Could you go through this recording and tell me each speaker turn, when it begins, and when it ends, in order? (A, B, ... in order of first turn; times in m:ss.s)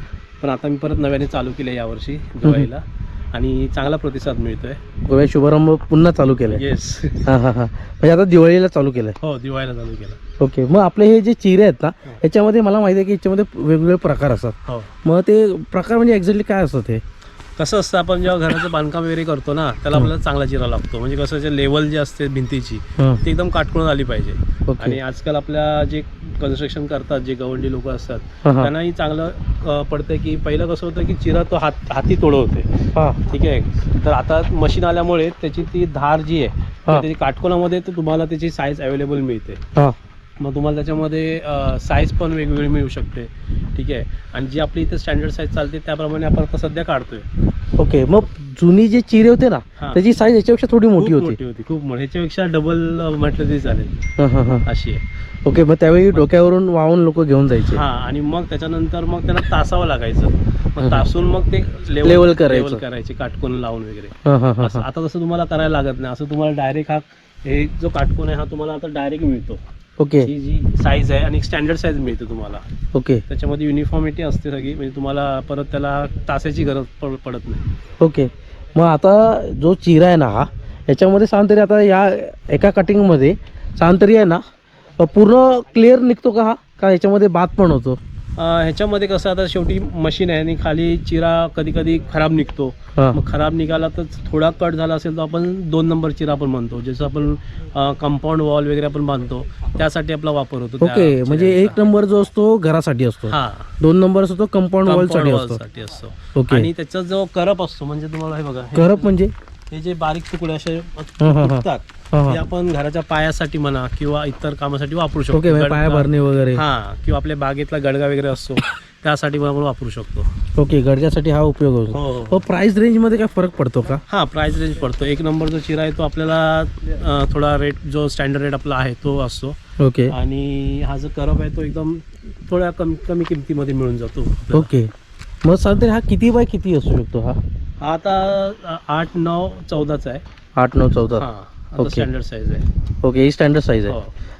0:00.4-0:04.8 A
0:02.4-0:02.7 B
0:05.0-0:06.6 B
0:06.5-0:07.2 A
0:07.2-0:09.2 B
0:09.2-0:10.2 A
0:10.4-0:17.0 B
0:17.6-0:32.7 A
0:24.7-0:25.0 B
0:28.4-0:28.7 B
0:32.9-0:33.2 B
0:33.3-0:39.6 A
0:40.4-0:47.3 A
0:47.8-0:51.4 B
0:51.0-0:53.9 A
0:54.2-0:54.6 B
0:54.6-0:55.0 A
0:55.4-0:57.8 B
0:57.7-1:09.6 A
1:00.8-1:01.0 B
1:02.0-1:02.8 B
1:04.2-1:04.8 B
1:10.0-1:10.3 B
1:10.2-1:12.6 A
1:12.9-1:13.2 B
1:13.3-1:17.6 A
1:18.0-1:24.4 B
1:25.0-1:28.0 B
1:28.4-1:41.8 A
1:40.8-1:45.6 B
1:43.3-1:43.7 A
1:44.8-1:49.1 A
1:46.3-1:46.7 B
1:48.7-1:49.3 B
1:49.7-2:00.3 A
1:51.2-1:52.4 B
1:55.3-1:56.6 B
2:00.6-2:04.0 B
2:01.9-2:02.4 A
2:04.1-2:09.6 A
2:09.8-2:10.1 B
2:10.1-2:14.7 A
2:14.5-2:14.9 B
2:15.4-2:17.4 B
2:17.8-2:20.2 A
2:20.6-2:21.2 B
2:21.2-2:22.6 A
2:21.8-2:22.1 B
2:23.0-2:24.0 B